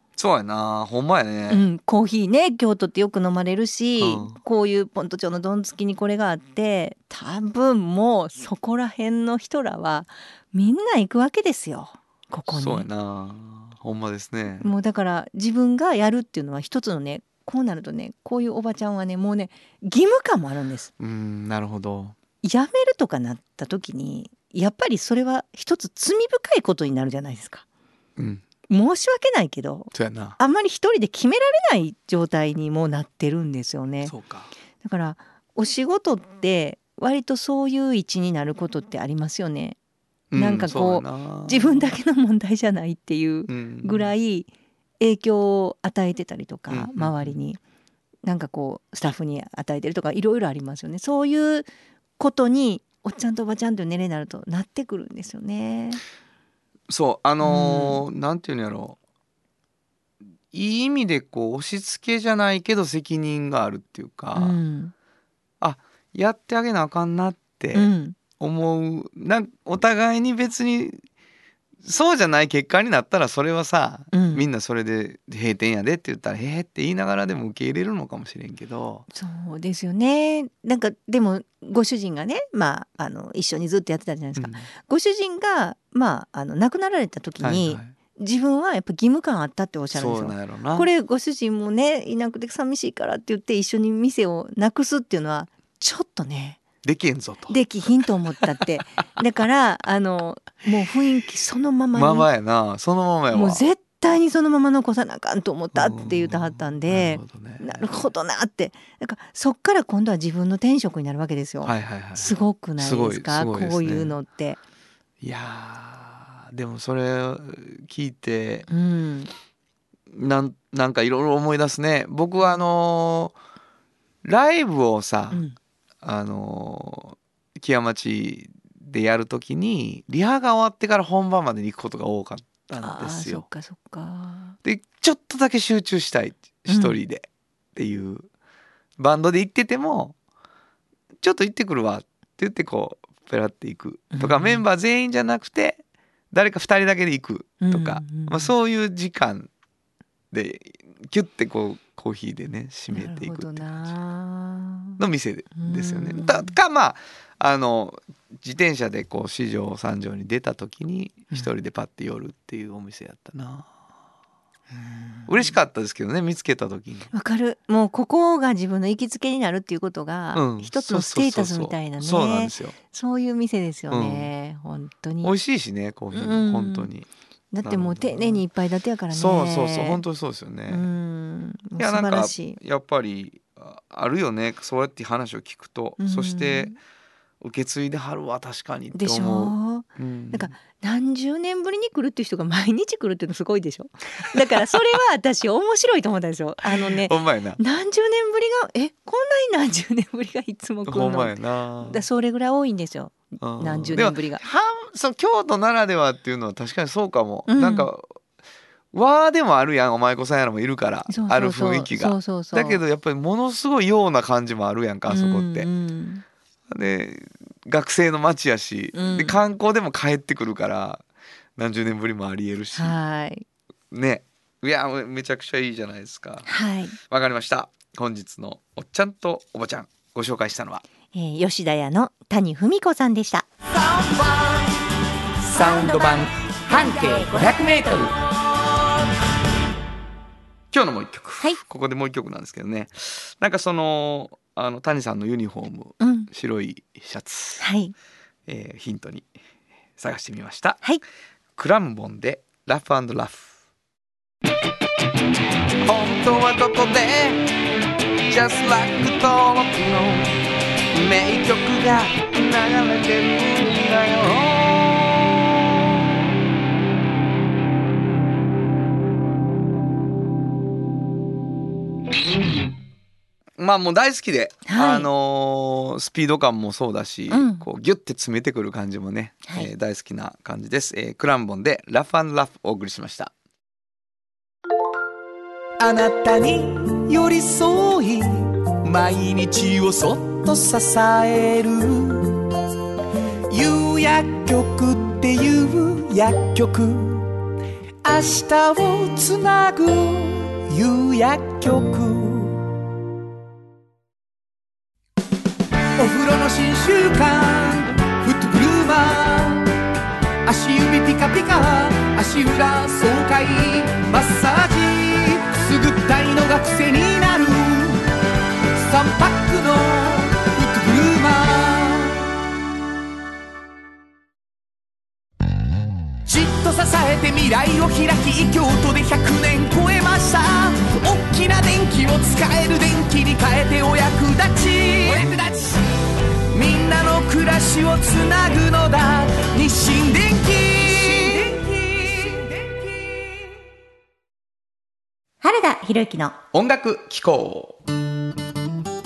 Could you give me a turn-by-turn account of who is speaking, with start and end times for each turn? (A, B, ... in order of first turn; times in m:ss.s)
0:00.2-0:01.7 A
0:01.5-0:12.9 B
0:04.0-0:04.4 A
0:12.5-0:14.7 A
0:14.6-0:20.9 B
0:21.0-0:22.2 A
0:22.4-0:27.6 B
0:28.2-0:28.4 A
0:28.7-0:34.1 B
0:29.9-0:30.4 A
0:34.0-0:34.5 A
0:34.8-0:39.8 B
0:40.3-0:41.9 A
0:40.4-0:44.5 B
0:43.5-0:44.1 A
0:45.0-0:47.6 B
0:46.7-0:47.3 A
0:48.2-0:56.0 B
0:56.9-0:59.0 A
0:57.4-0:58.0 B
1:00.5-1:04.6 A
1:04.4-1:04.9 B
1:05.6-1:11.0 A
1:07.7-1:08.2 B
1:11.8-1:19.0 A
1:14.1-1:14.5 B
1:19.1-1:36.6 B
1:24.4-1:24.7 A
1:27.4-1:27.9 A
1:29.9-1:30.9 A
1:36.8-1:37.6 A
1:37.5-1:42.3 B
1:41.9-1:43.6 A
1:43.3-1:54.6 B
1:45.7-1:48.0 A
1:51.6-1:54.2 A
1:55.2-1:58.7 A
1:58.7-1:59.3 B
2:00.1-2:03.4 A
2:04.2-2:05.4 A
2:06.0-2:13.4 A
2:12.8-2:14.6 B
2:14.6-2:18.3 A
2:16.7-2:17.0 B
2:19.0-2:20.2 A
2:21.2-2:25.8 A
2:24.1-2:24.6 B
2:26.3-2:29.5 A
2:27.6-2:28.5 B
2:30.3-2:33.7 A
2:32.9-2:35.0 B
2:35.0-2:43.7 A
2:35.6-2:36.5 B
2:44.8-2:45.3 B
2:45.3-2:47.1 A
2:47.1-2:55.3 B
2:50.4-2:52.8 A
2:53.9-2:54.3 A
2:55.2-2:57.1 A
2:56.1-2:56.9 B
2:57.5-3:00.0 B
2:57.6-2:58.4 A
2:59.1-3:00.9 A
3:00.7-3:02.6 B
3:01.8-3:06.7 A
3:06.0-3:06.8 B
3:07.4-3:10.5 A
3:08.9-3:24.4 B
3:16.8-3:17.6 A
3:20.9-3:22.0 A
3:23.4-3:28.1 A
3:27.5-3:27.9 B
3:28.9-3:35.7 A
3:31.1-3:32.8 B
3:35.1-3:36.2 B
3:36.7-3:41.0 A
3:38.9-3:39.4 B
3:41.6-3:43.0 A
3:42.8-3:43.4 B
3:43.9-3:46.5 A
3:46.5-3:47.0 B
3:47.0-3:50.8 A
3:51.1-3:53.5 B
3:55.5-3:58.1 A
4:00.7-4:07.6 A
4:06.0-4:06.3 B
4:07.6-4:07.9 B
4:08.5-4:09.3 A
4:10.0-4:10.8 A
4:11.6-4:13.5 A
4:15.8-4:17.5 A
4:18.3-4:20.4 A
4:20.9-4:25.6 A
4:33.6-4:43.3 A
4:34.7-4:35.1 B
4:37.3-4:37.7 B
4:45.8-4:52.4 C
4:53.5-4:57.3 C
4:58.0-5:02.6 C
5:06.0-5:09.7 C
5:10.5-5:18.0 C
5:18.8-5:22.2 C
5:26.3-5:35.7 C
5:36.5-5:42.7 C
5:40.8-5:41.4 A
5:45.4-5:46.4 B
5:46.5-5:47.8 A